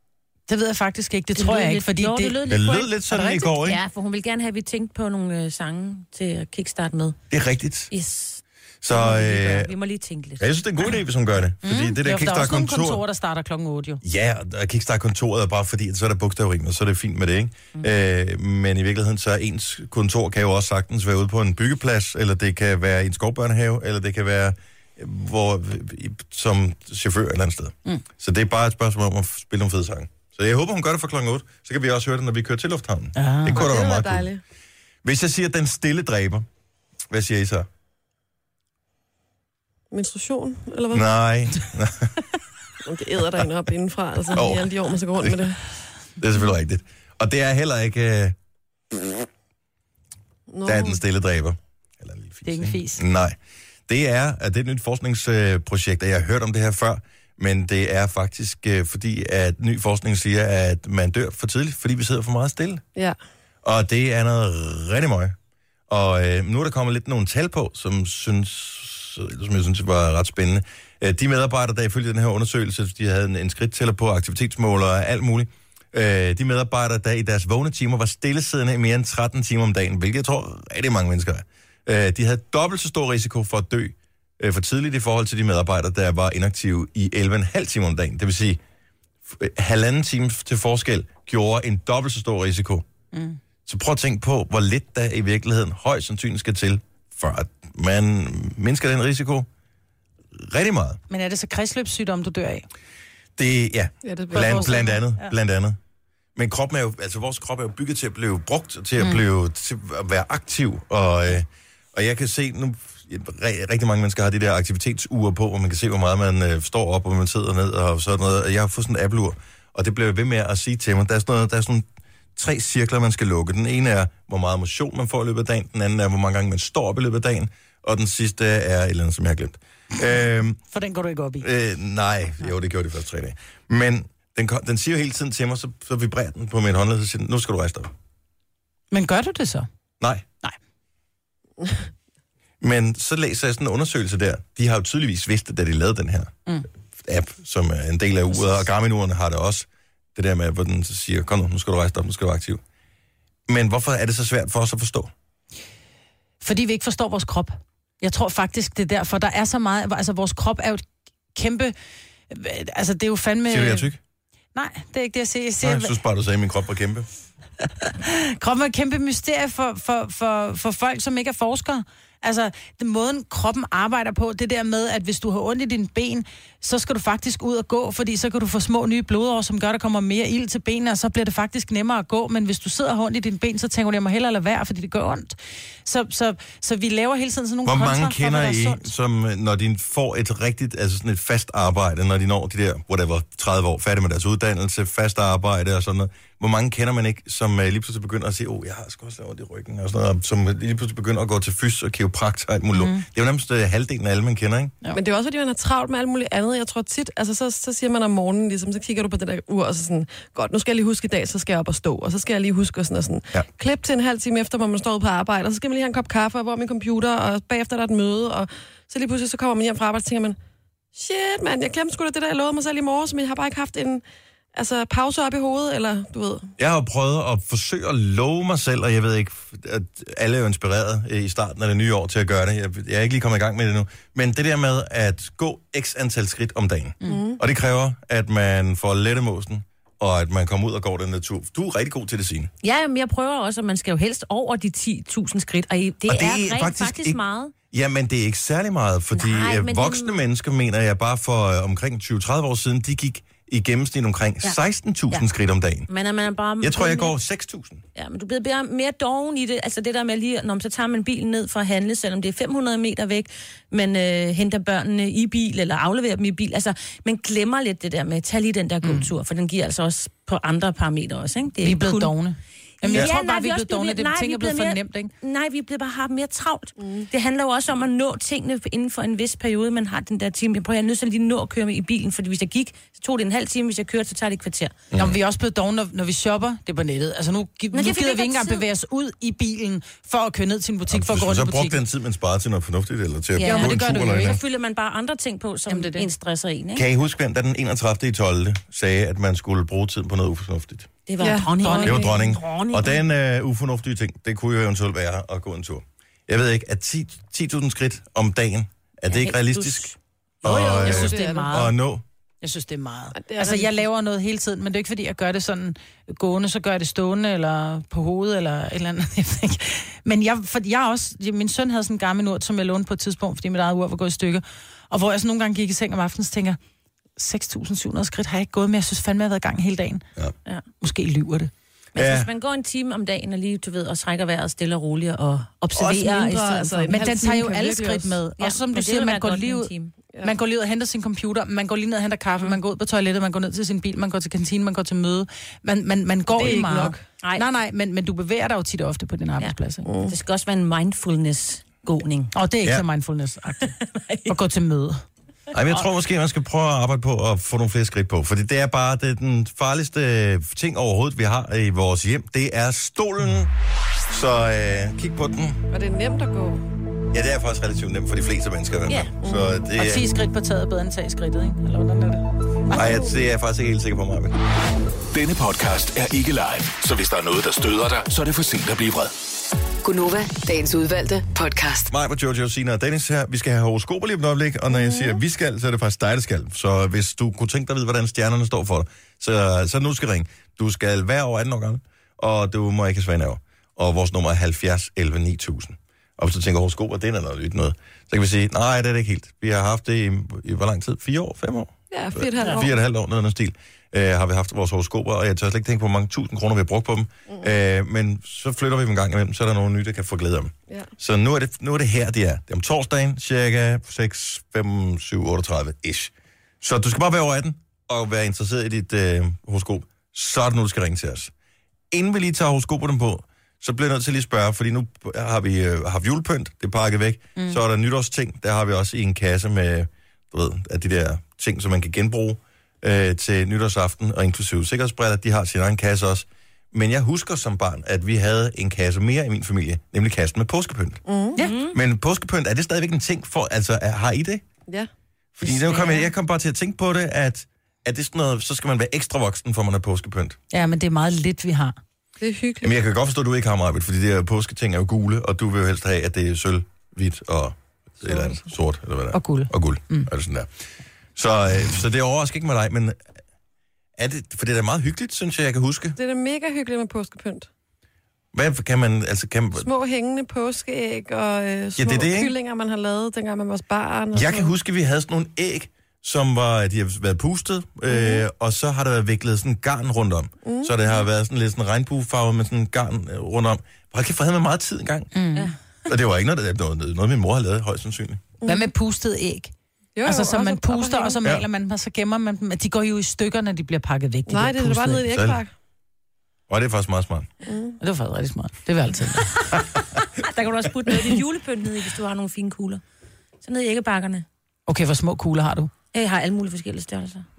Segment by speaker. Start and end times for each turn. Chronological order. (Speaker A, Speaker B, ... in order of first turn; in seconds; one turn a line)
Speaker A: 0.5-2.4
Speaker B: 1.4-7.2
Speaker C: 2.5-3.8
Speaker A: 3.1-3.5
Speaker C: 7.3-7.9
Speaker B: 7.9-10.5
Speaker C: 8.8-9.7
Speaker C: 10.4-13.0
Speaker A: 11.6-14.0
Speaker C: 14.0-34.3
Speaker A: 33.2-33.7
Speaker D: 33.5-34.4
Speaker C: 35.0-36.5
Speaker C: 37.1-37.7
Speaker D: 39.9-41.1
Speaker C: 40.9-42.2
Speaker D: 42.8-45.6
Speaker C: 44.3-45.5
Speaker C: 46.2-48.4
Speaker D: 50.5-51.0
Speaker C: 50.6-62.8
Speaker A: 52.5-53.0
Speaker C: 63.6-65.4
Speaker C: 65.9-88.6
Speaker C: 89.3-92.8
Speaker A: 93.1-93.4
Speaker C: 93.7-99.5
Speaker C: 100.3-101.0
Speaker A: 101.1-102.7
Speaker C: 103.4-105.8
Speaker D: 104.0-104.8
Speaker A: 104.3-105.3
Speaker C: 106.4-130.6
Speaker A: 130.7-131.5
Speaker C: 131.4-137.9
Speaker A: 138.9-139.7
Speaker C: 140.0-140.2
Speaker C: 142.6-146.3
Speaker C: 147.0-152.6
Speaker C: 153.5-155.1
Speaker A: 156.4-161.7
Speaker A: 162.3-163.9
Speaker C: 163.5-164.0
Speaker A: 164.6-165.9
Speaker C: 165.6-167.1
Speaker A: 167.8-188.9
Speaker C: 187.7-204.8
Speaker A: 202.7-203.1
Speaker D: 204.9-220.4
Speaker D: 220.9-224.0
Speaker D: 224.6-226.5
Speaker C: 226.6-242.5
Speaker D: 237.1-237.4
Speaker B: 242.6-247.5
Speaker C: 246.1-247.2
Speaker C: 247.7-255.9
Speaker B: 249.1-250.2
Speaker B: 255.9-257.1
Speaker C: 256.6-257.8
Speaker B: 258.0-272.1
Speaker A: 268.8-269.1
Speaker A: 271.6-275.1
Speaker B: 272.8-284.8
Speaker D: 276.8-277.1
Speaker C: 284.9-285.2
Speaker A: 284.9-291.8
Speaker B: 287.7-288.6
Speaker C: 290.9-294.4
Speaker B: 293.4-296.9
Speaker A: 293.4-294.4
Speaker A: 295.7-296.1
Speaker C: 296.8-300.9
Speaker B: 301.1-303.0
Speaker D: 301.2-301.8
Speaker A: 301.6-302.1
Speaker C: 301.8-309.9
Speaker B: 309.1-309.9
Speaker C: 310.4-312.0
Speaker A: 310.4-311.7
Speaker D: 310.8-311.5
Speaker A: 312.4-326.6
Speaker D: 313.2-313.8
Speaker A: 327.2-330.1
Speaker A: 330.8-331.5
Speaker B: 331.9-337.0
Speaker C: 332.0-332.3
Speaker D: 335.7-338.2
Speaker A: 336.9-339.7
Speaker B: 338.4-339.9
Speaker A: 340.2-349.9
Speaker D: 346.4-347.0
Speaker B: 346.4-347.4
Speaker B: 349.4-352.3
Speaker D: 349.9-350.1
Speaker A: 352.3-353.7
Speaker B: 353.6-354.4
Speaker A: 354.3-355.0
Speaker C: 355.5-363.5
Speaker C: 364.1-365.6
Speaker D: 365.7-366.6
Speaker C: 367.1-370.1
Speaker D: 369.2-369.6
Speaker A: 369.8-372.9
Speaker C: 372.7-374.4
Speaker E: 375.1-379.1
Speaker F: 379.8-381.9
Speaker C: 381.9-421.3
Speaker D: 401.9-402.7
Speaker C: 421.9-441.0
Speaker D: 441.1-441.4
Speaker B: 441.4-441.8
Speaker C: 441.7-444.4
Speaker C: 445.4-450.4
Speaker B: 445.5-446.0
Speaker A: 450.5-451.8
Speaker D: 452.2-452.8
Speaker C: 452.6-460.5
Speaker D: 458.0-458.4
Speaker A: 459.1-460.1
Speaker C: 461.2-463.0
Speaker C: 464.0-466.0
Speaker D: 466.0-467.5
Speaker C: 468.3-469.7
Speaker D: 469.6-474.5
Speaker C: 471.8-472.3
Speaker C: 474.1-485.1
Speaker D: 477.9-478.2
Speaker D: 480.4-480.7
Speaker A: 485.1-485.5
Speaker C: 485.9-488.2
Speaker D: 488.4-488.7
Speaker A: 488.5-489.5
Speaker D: 489.9-491.2
Speaker A: 490.1-495.1
Speaker D: 494.3-495.5
Speaker C: 495.0-495.4
Speaker C: 496.5-497.3
Speaker D: 497.5-497.8
Speaker A: 497.8-499.5
Speaker B: 500.2-502.8
Speaker B: 503.4-504.3
Speaker A: 504.7-505.7
Speaker B: 505.9-507.2